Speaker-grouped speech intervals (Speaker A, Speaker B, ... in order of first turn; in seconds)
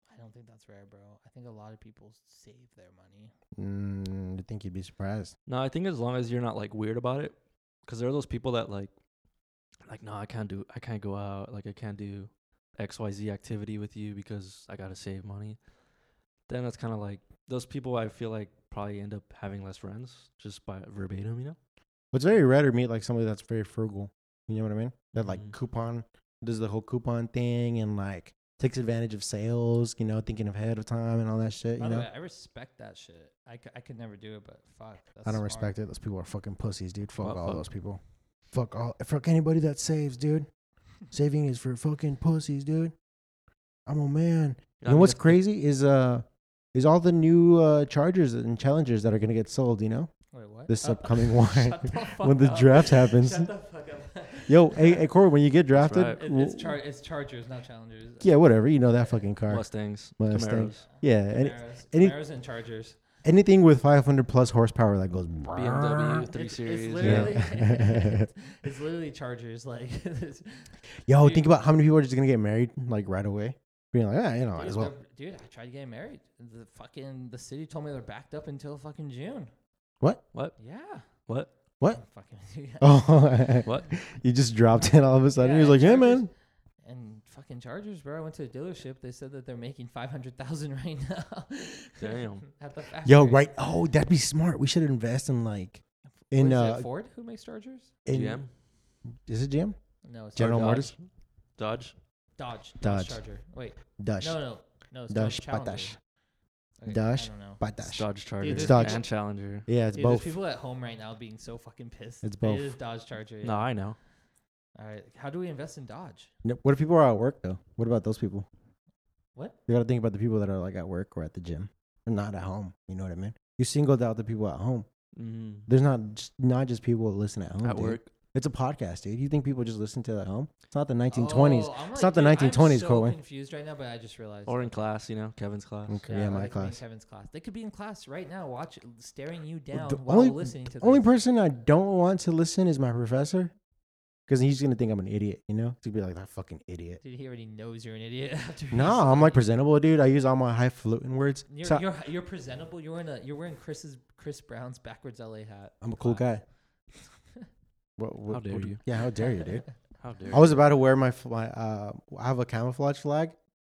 Speaker A: 0.1-3.3, 31.8-35.7, 50.3-55.1, 56.2-59.3, 60.8-63.0, 66.3-71.5, 74.5-79.5, 80.6-81.1, 81.9-83.4, 85.3-86.3, 86.8-93.6, 96.3-97.9, 100.0-100.8, 102.4-106.0, 106.8-107.6, 108.4-109.1, 109.9-113.7, 114.7-116.3, 131.1-134.8, 136.1-141.1, 147.0-149.5, 151.5-156.4, 159.2-159.6
Speaker B: 3.5-5.3, 22.1-32.1, 35.2-38.0, 38.5-40.5, 41.1-42.9, 43.9-50.1, 50.7-53.5, 54.4-56.8, 58.2-62.2, 63.2-66.3, 67.0-68.3, 71.0-74.9, 82.8-86.3, 93.0-96.9, 98.0-98.4, 99.2-99.8, 100.3-100.9, 102.8-103.2, 104.0-104.4, 105.1-106.0, 106.8-109.1, 109.7-110.4, 112.2-112.7, 116.4-118.5, 119.7-124.9, 125.7-133.2, 135.9-136.8, 139.7-143.5, 144.3-147.0, 148.7-151.8, 155.8-156.4, 158.0-159.7, 160.3-163.3
Speaker C: 5.5-8.9, 9.8-15.6, 16.5-21.6, 25.1-25.5, 37.2-37.6, 44.8-45.4, 55.7-56.2, 59.5-60.8, 65.5-67.4, 80.3-81.5, 83.6-83.9, 92.0-92.4, 98.1-98.5, 100.3-101.0, 101.5-101.9, 107.8-109.7, 113.4-114.0, 125.1-125.7, 127.6-128.1, 134.5-136.0, 158.3-158.8, 160.0-160.6